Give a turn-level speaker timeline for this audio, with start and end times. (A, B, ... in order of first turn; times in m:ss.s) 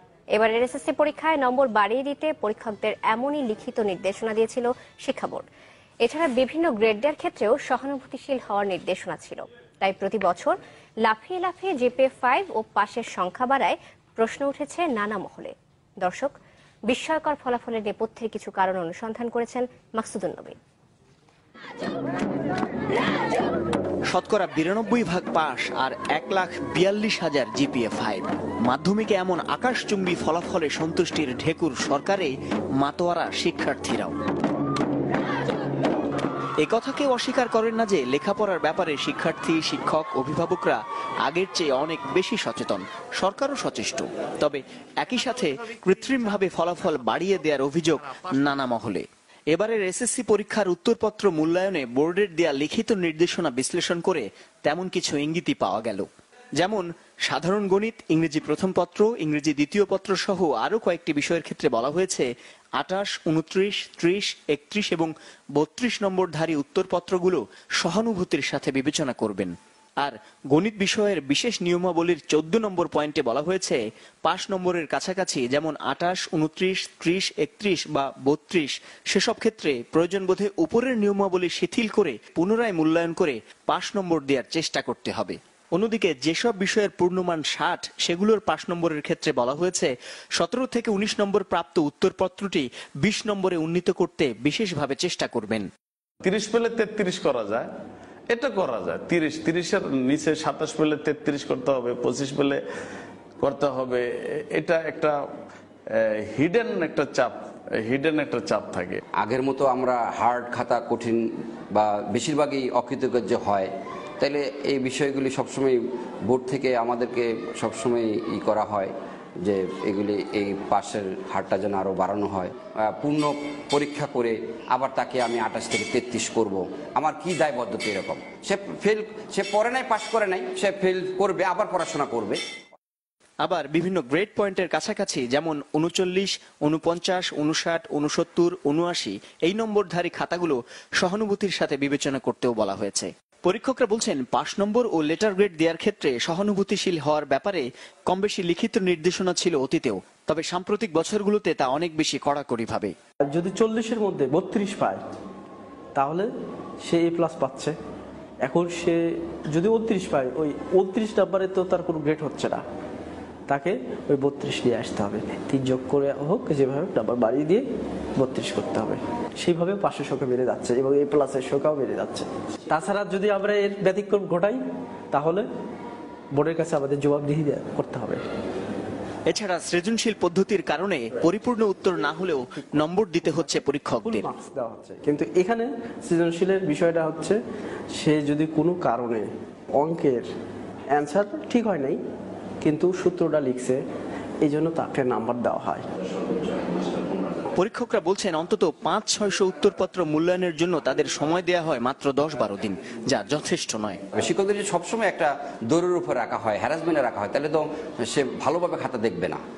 0:00.3-0:05.4 A
0:06.0-0:16.3 A
0:16.9-0:20.6 A
0:24.1-0:34.1 B
0:36.6-0:56.1 B
0:56.6-1:35.7 B
1:36.2-1:37.7 C
1:38.3-1:42.6 C
1:43.4-1:45.2 C
1:45.9-1:49.0 C
1:49.2-2:12.4 D
2:13.4-2:32.9 B
2:33.3-2:35.0 E
2:36.0-2:36.3 E
2:36.8-2:37.7 E
2:38.4-2:39.0 E
2:39.5-2:42.6 E
2:43.5-2:47.6 E
2:48.2-2:54.6 E
2:55.1-2:55.4 E
2:56.4-2:58.2 E
2:59.3-3:04.3 B
3:04.0-3:07.4 E
3:08.0-3:09.3 E
3:09.8-3:10.3 E
3:10.9-3:12.0 E
3:12.6-3:13.8 E
3:14.4-3:15.8 E
3:17.5-3:24.0 B
3:24.1-3:29.4 D